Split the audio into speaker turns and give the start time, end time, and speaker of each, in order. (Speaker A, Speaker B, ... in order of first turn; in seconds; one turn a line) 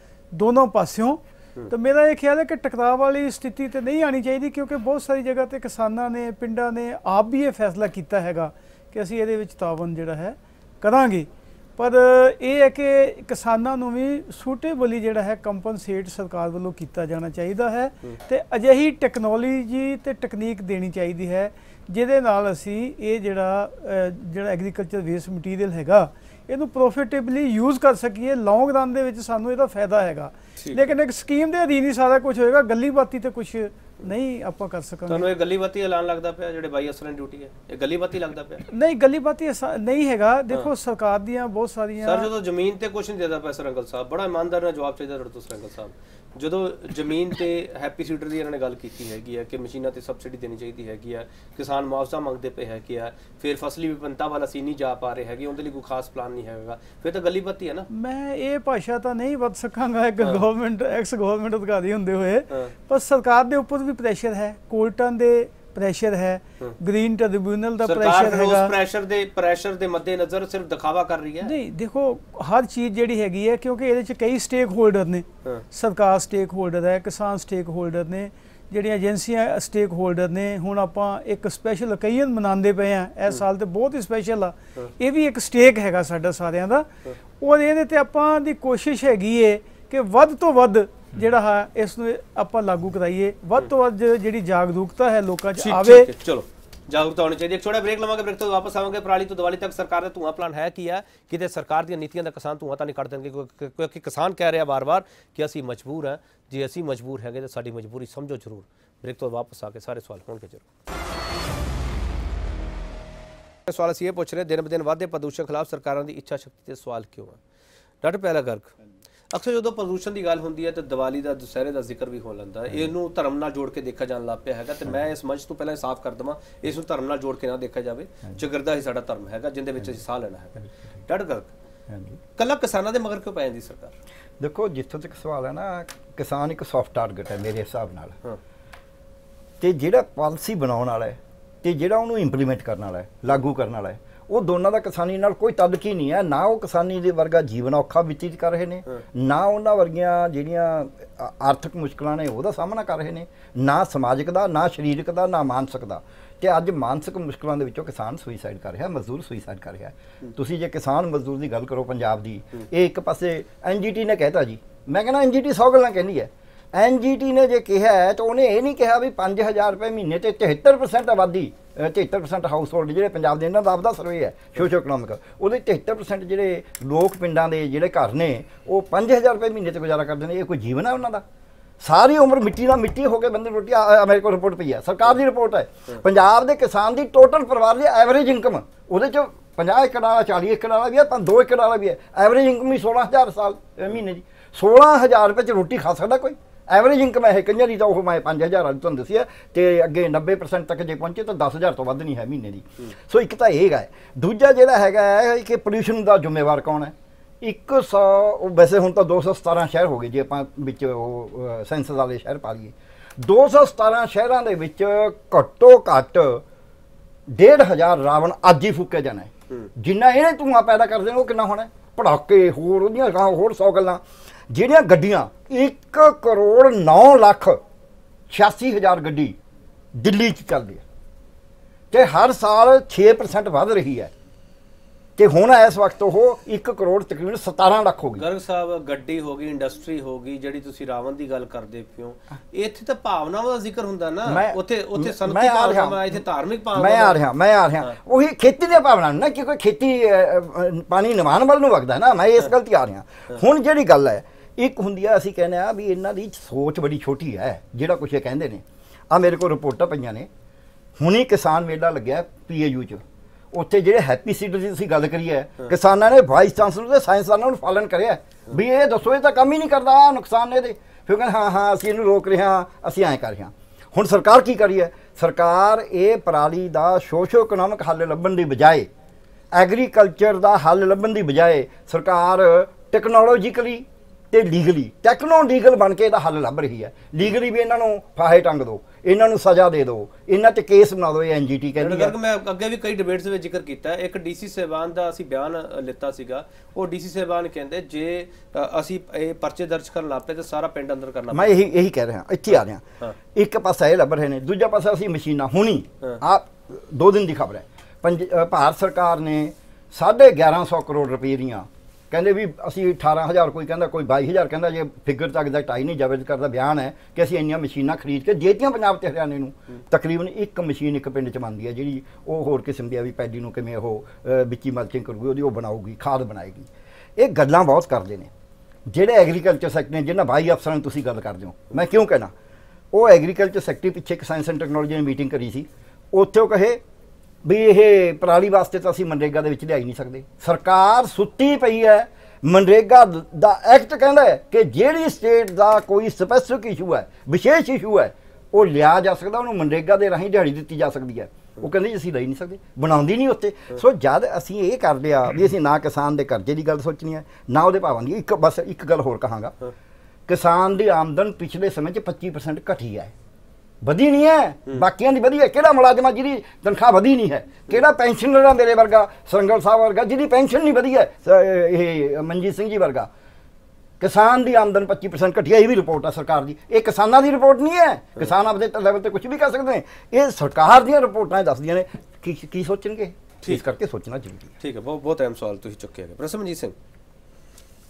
Speaker A: 0.3-35.3
Speaker B: 35.1-38.6
Speaker A: 38.7-42.3
Speaker B: 42.0-57.9
Speaker A: 57.9-68.7
Speaker B: 67.8-71.5
Speaker A: 71.4-86.9
Speaker A: 87.4-96.1
Speaker B: 95.6-110.6
Speaker B: 113.7-117.4
Speaker B: 118.0-118.7
Speaker B: 119.3-131.5
Speaker C: 131.9-132.2
Speaker B: 132.4-133.9
Speaker C: 134.4-138.2
Speaker C: 139.6-181.2
Speaker C: 181.8-216.4
Speaker C: 217.3-227.6
Speaker C: 228.3-229.3
Speaker C: 229.9-230.8
Speaker C: 231.9-234.1
Speaker C: 235.2-238.2
Speaker B: 238.2-247.2
Speaker C: 244.2-246.2
Speaker C: 246.7-260.3
Speaker C: 261.0-278.9
Speaker C: 279.5-292.1
Speaker B: 291.8-301.6
Speaker C: 301.3-328.3
Speaker C: 328.9-332.3
Speaker C: 332.9-336.8
Speaker C: 337.4-359.5
Speaker C: 360.3-363.1
Speaker C: 363.8-373.1
Speaker C: 374.0-384.5
Speaker B: 384.6-386.7